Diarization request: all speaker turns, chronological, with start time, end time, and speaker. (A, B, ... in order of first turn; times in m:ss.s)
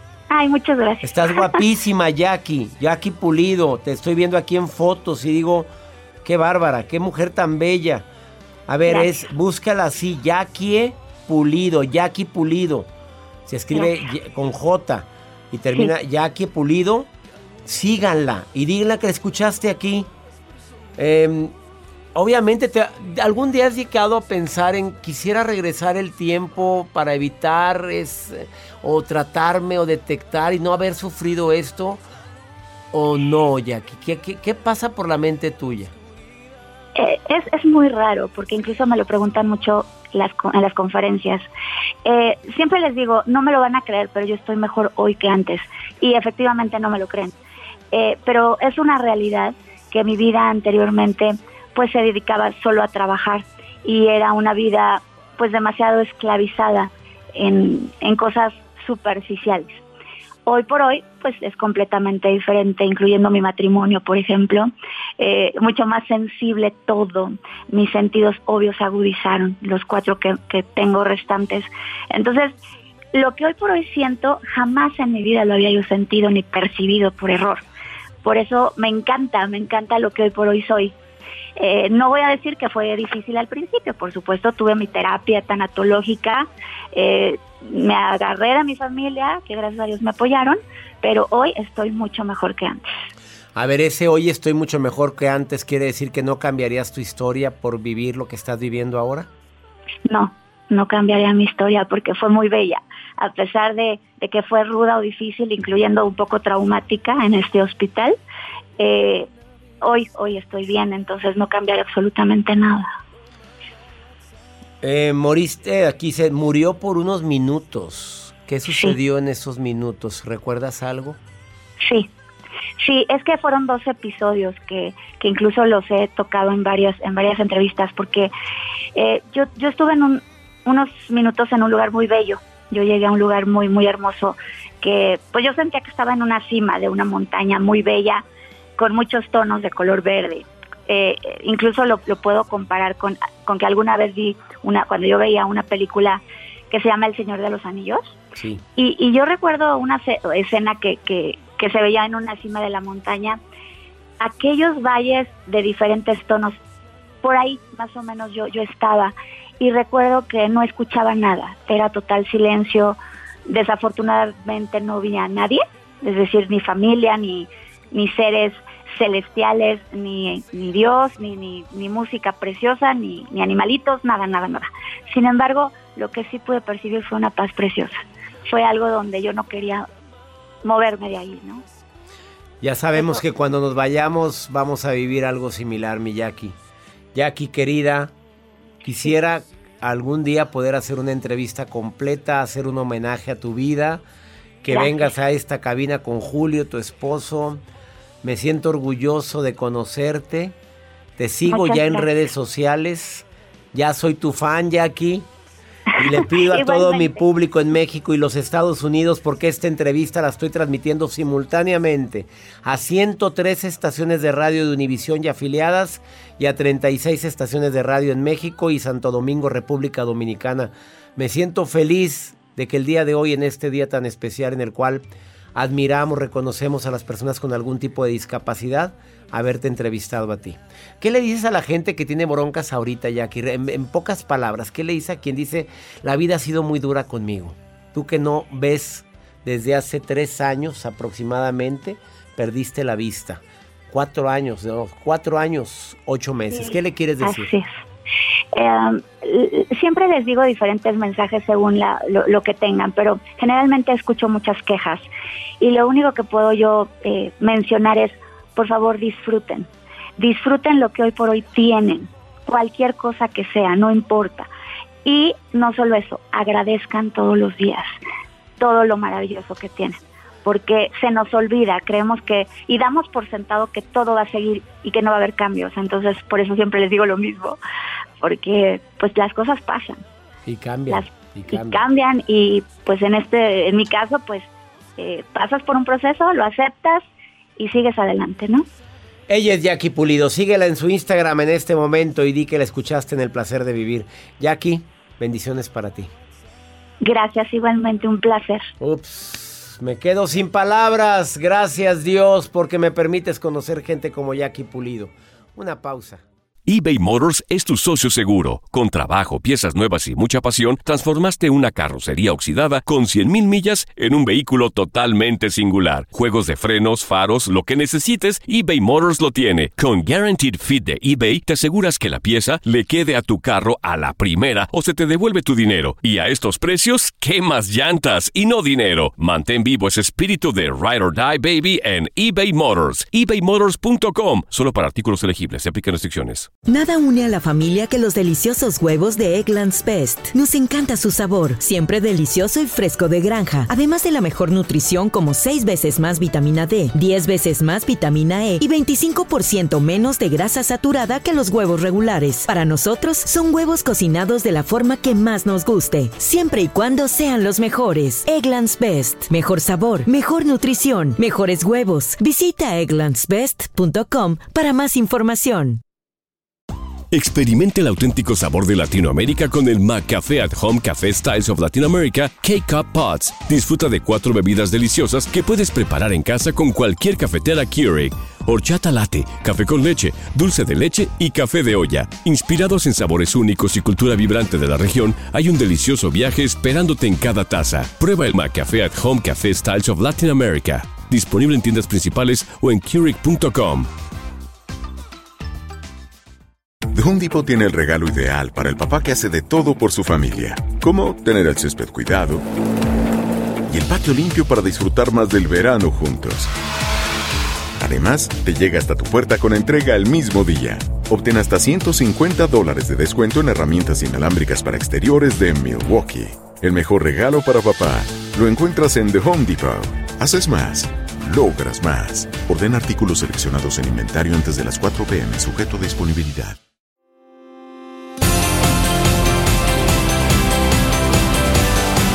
0:00.3-0:01.6 A
0:01.0-0:05.7 B
0:06.2-0:08.1 B
0:08.7-0:12.9 B
0:08.9-0:09.2 A
0:13.5-0:17.1 B
0:17.6-0:20.1 B
0:21.0-0:21.5 B
0:22.1-0:32.0 B
0:32.9-0:35.9 B
0:36.9-0:41.4 A
0:42.0-0:47.3 A
0:47.9-0:59.8 A
1:00.4-1:12.5 A
1:13.1-1:17.6 A
1:18.2-1:20.9 A
1:21.6-1:32.8 A
1:33.5-1:39.3 B
1:40.1-1:48.2 A
1:48.8-1:49.3 A
1:49.8-1:52.9 A
1:54.8-2:01.2 B
2:01.8-2:02.1 A
2:02.8-2:08.3 A
2:09.0-2:18.2 A
2:18.8-2:28.2 A
2:28.4-2:28.6 B
2:28.8-2:33.4 A
2:34.2-2:36.6 A
2:37.2-2:59.9 A
3:00.6-3:01.6 A
3:02.6-3:06.6 B
3:07.1-3:08.1 B
3:08.8-3:14.0 B
3:14.6-3:17.6 B
3:14.7-3:15.0 A
3:18.2-3:20.6 B
3:21.2-3:25.3 B
3:21.5-3:22.1 A
3:26.0-4:07.5 B
3:26.3-3:27.2 A
4:06.6-4:07.7 A
4:08.5-4:15.0 A
4:15.6-4:24.5 A
4:25.0-4:27.9 A
4:28.6-4:37.6 A
4:38.2-4:40.0 A
4:40.4-4:41.8 B
4:40.9-4:47.0 A
4:47.6-4:48.6 A
4:49.3-4:56.1 B
4:57.0-4:58.7 A
4:58.8-5:06.2 B
5:06.6-5:36.5 C
5:36.7-6:05.8 D
6:07.1-6:33.9 C
6:36.9-6:42.4 E
6:43.7-6:46.5 E
6:47.8-7:06.6 E